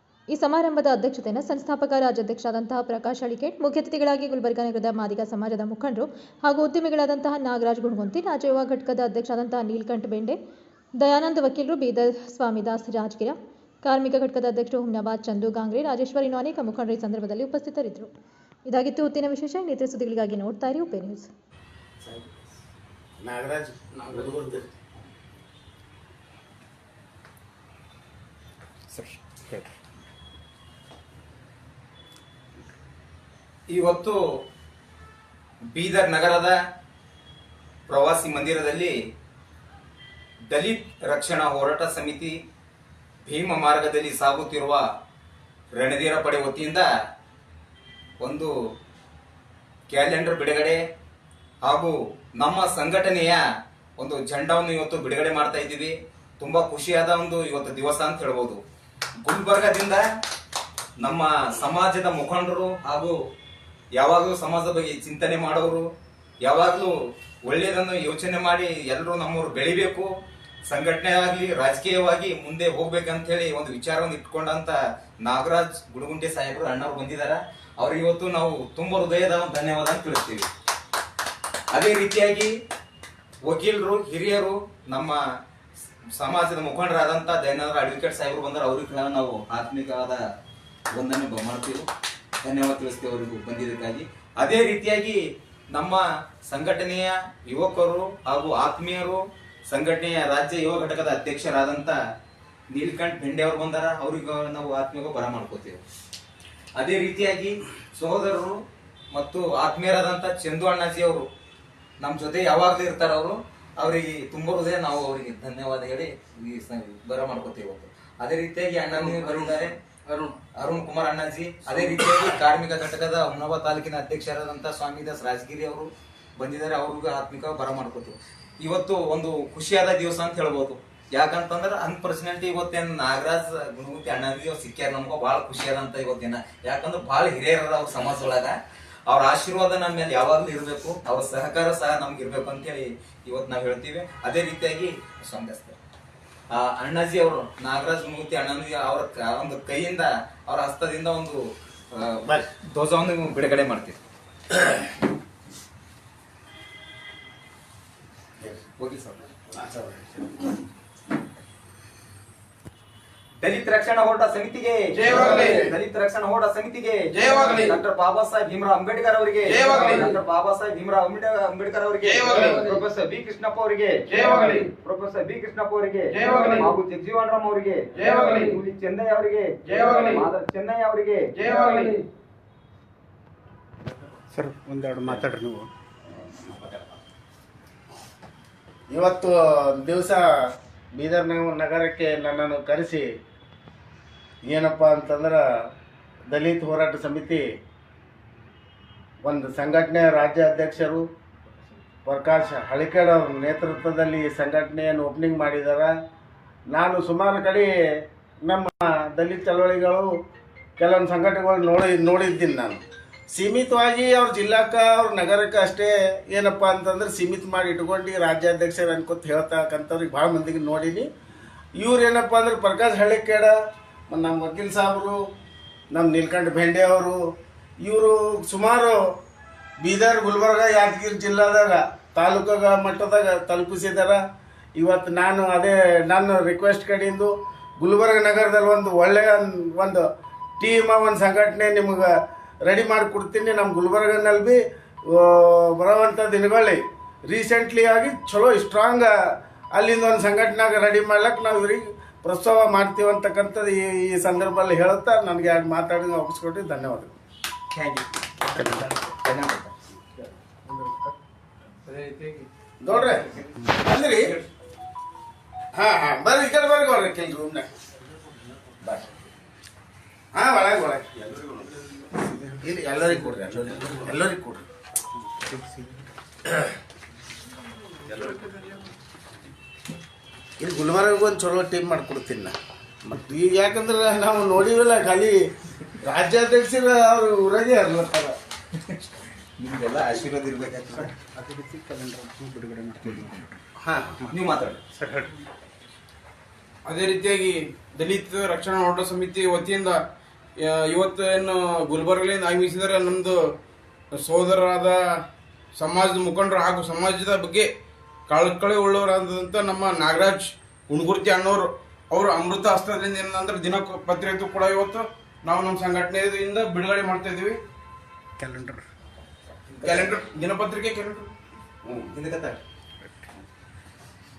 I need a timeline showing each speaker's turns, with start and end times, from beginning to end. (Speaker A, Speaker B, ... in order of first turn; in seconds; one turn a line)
Speaker A: 0.3-10.4
Speaker A: 11.0-18.1
Speaker A: 18.7-21.3
Speaker B: 23.2-24.7
Speaker C: 33.7-34.2
Speaker C: 35.7-36.5
Speaker C: 37.9-38.9
Speaker C: 40.5-42.3
Speaker C: 43.2-44.8
Speaker C: 45.7-46.9
Speaker C: 48.2-48.5
Speaker C: 49.9-50.8
Speaker C: 51.6-53.4
Speaker C: 54.0-58.6
Speaker C: 59.2-60.0
Speaker C: 61.0-63.1
Speaker C: 64.0-65.9
Speaker C: 66.4-66.9
Speaker C: 67.5-70.1
Speaker C: 70.7-80.5
Speaker C: 81.7-82.5
Speaker C: 83.4-85.2
Speaker C: 86.2-90.2
Speaker C: 90.9-91.8
Speaker C: 92.4-95.2
Speaker C: 95.7-102.0
Speaker C: 102.7-105.8
Speaker C: 106.8-108.6
Speaker C: 109.1-111.2
Speaker C: 112.0-119.7
Speaker D: 118.9-120.3
Speaker C: 120.6-138.5
Speaker C: 139.1-145.8
Speaker C: 146.5-151.4
Speaker C: 151.9-154.0
Speaker C: 158.8-159.2
Speaker B: 159.5-160.4
Speaker C: 163.4-181.9
Speaker D: 164.9-165.7
Speaker D: 167.1-167.8
Speaker D: 169.5-170.1
Speaker D: 172.0-172.7
Speaker D: 174.1-174.6
Speaker D: 176.1-176.7
Speaker D: 178.0-178.6
Speaker D: 179.7-180.2
Speaker D: 181.4-182.0
Speaker E: 184.3-185.7
Speaker B: 188.9-190.4
Speaker B: 190.9-193.1
Speaker B: 194.5-195.4
Speaker B: 196.3-197.4
Speaker B: 199.2-201.0
Speaker B: 202.1-205.9
Speaker B: 206.7-207.7
Speaker B: 208.4-210.0
Speaker B: 210.8-212.8
Speaker B: 213.3-221.1
Speaker B: 221.8-223.5
Speaker B: 224.1-225.2
Speaker B: 225.9-227.2
Speaker B: 227.8-229.0
Speaker B: 229.8-234.2
Speaker B: 234.8-240.0
Speaker B: 240.6-242.1
Speaker B: 242.6-244.6
Speaker B: 245.1-249.1
Speaker B: 249.7-257.1
Speaker C: 257.7-259.7
Speaker D: 262.0-262.3
Speaker B: 262.8-264.4
Speaker B: 265.8-267.7
Speaker B: 270.3-271.7
Speaker B: 272.4-274.6
Speaker B: 278.2-278.5
Speaker B: 280.6-285.3
Speaker B: 286.0-288.3
Speaker C: 288.8-289.0
Speaker C: 289.6-291.1
Speaker E: 291.4-293.3
Speaker B: 293.8-294.1
Speaker C: 294.3-294.8
Speaker D: 296.8-300.0
Speaker D: 300.6-303.5
Speaker D: 304.1-305.2
Speaker D: 305.7-307.7
Speaker D: 308.3-317.6
Speaker C: 319.7-320.1
Speaker D: 319.8-321.3
Speaker B: 321.8-322.1
Speaker C: 322.1-322.6